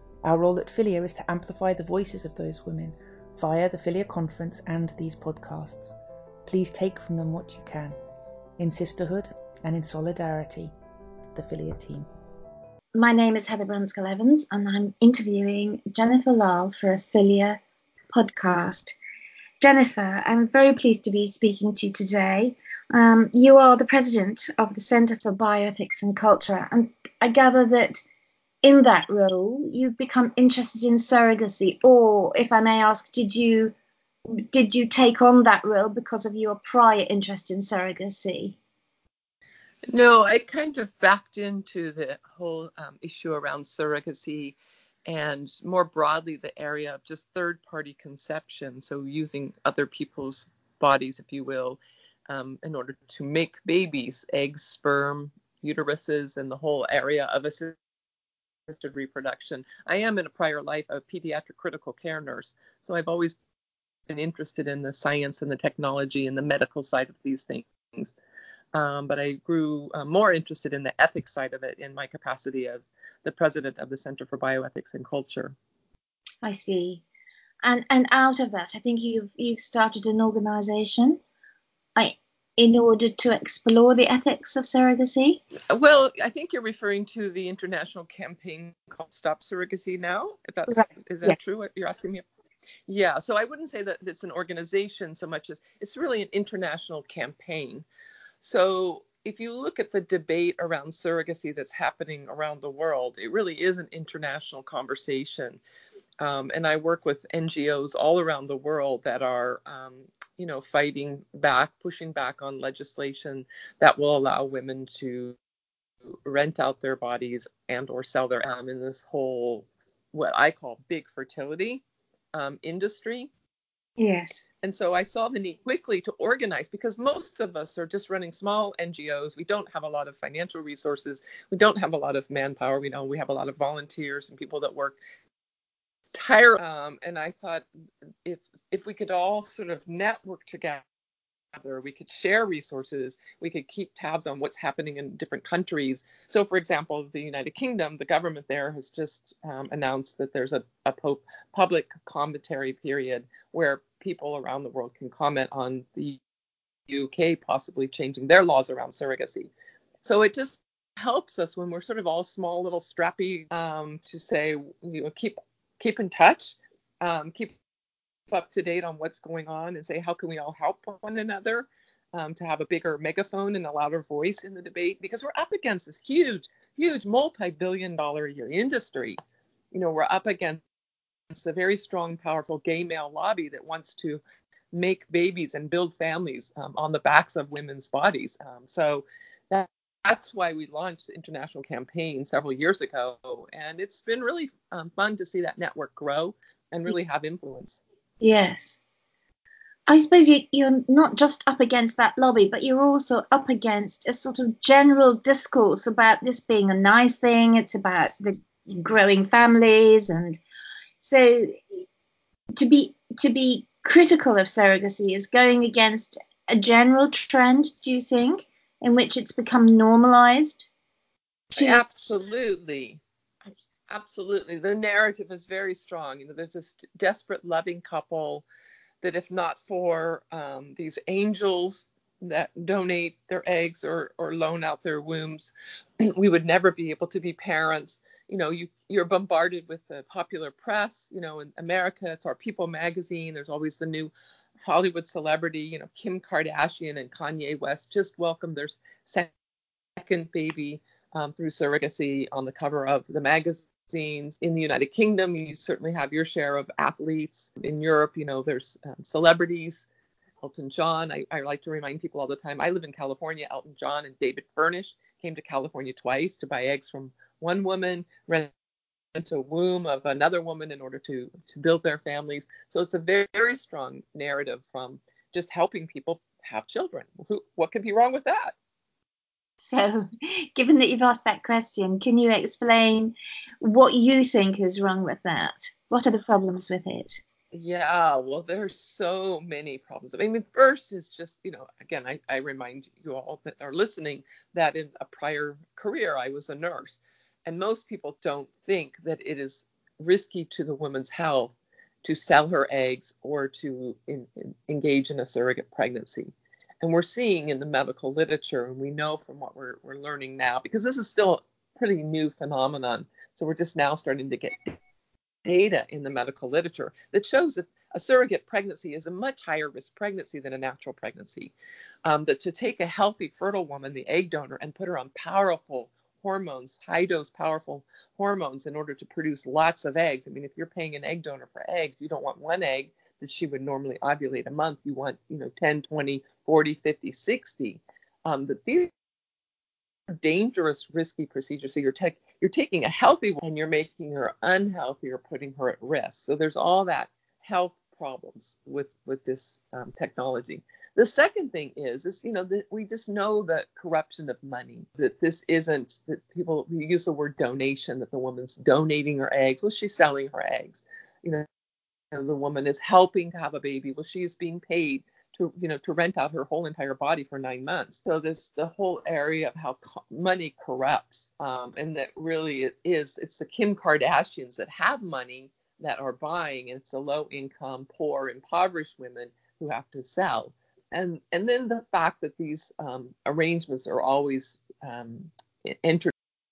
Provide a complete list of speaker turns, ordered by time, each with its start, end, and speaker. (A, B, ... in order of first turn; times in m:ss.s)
0:00.2-0:06.0 A
0:06.5-0:08.0 A
0:08.6-0:10.7 A
0:11.3-0:12.1 A
0:13.0-0:19.0 B
0:19.6-0:28.0 B
0:28.6-0:33.7 B
0:34.4-0:38.6 B
0:39.9-0:44.6 C
0:45.1-0:57.8 C
0:58.7-1:03.4 C
1:04.1-1:08.1 C
1:08.7-1:15.6 C
1:16.4-1:17.0 B
1:17.6-1:21.2 B
1:22.0-1:25.4 B
1:25.7-1:32.2 C
1:30.7-1:31.4 B
1:32.9-1:37.9 C
1:38.4-1:45.6 C
1:46.2-1:55.4 C
1:56.1-2:01.8 C
2:02.3-2:03.3 C
2:04.0-2:04.4 B
2:04.6-2:15.0 C
2:16.1-2:17.6 C
2:18.2-2:20.8 C
2:21.5-2:36.2 C
2:36.9-2:39.5 C
2:40.0-2:47.6 C
2:48.3-2:59.2 C
2:59.7-3:00.6 C
3:01.3-3:04.2 C
3:04.7-3:17.8 C
3:18.2-3:18.8 B
3:19.9-3:30.4 B
3:31.0-3:31.6 B
3:32.6-3:40.7 B
3:41.5-3:43.0 C
3:41.6-3:41.8 B
3:43.9-3:48.4 C
3:49.0-4:04.1 C
4:04.6-4:09.3 C
4:10.0-4:19.8 C
4:20.4-4:28.5 C
4:29.1-4:38.5 C
4:39.6-4:47.2 B
4:47.5-5:14.8 C
5:15.4-5:21.5 C
5:22.0-5:38.9 C
5:40.1-6:01.5 C
6:02.1-6:26.1 C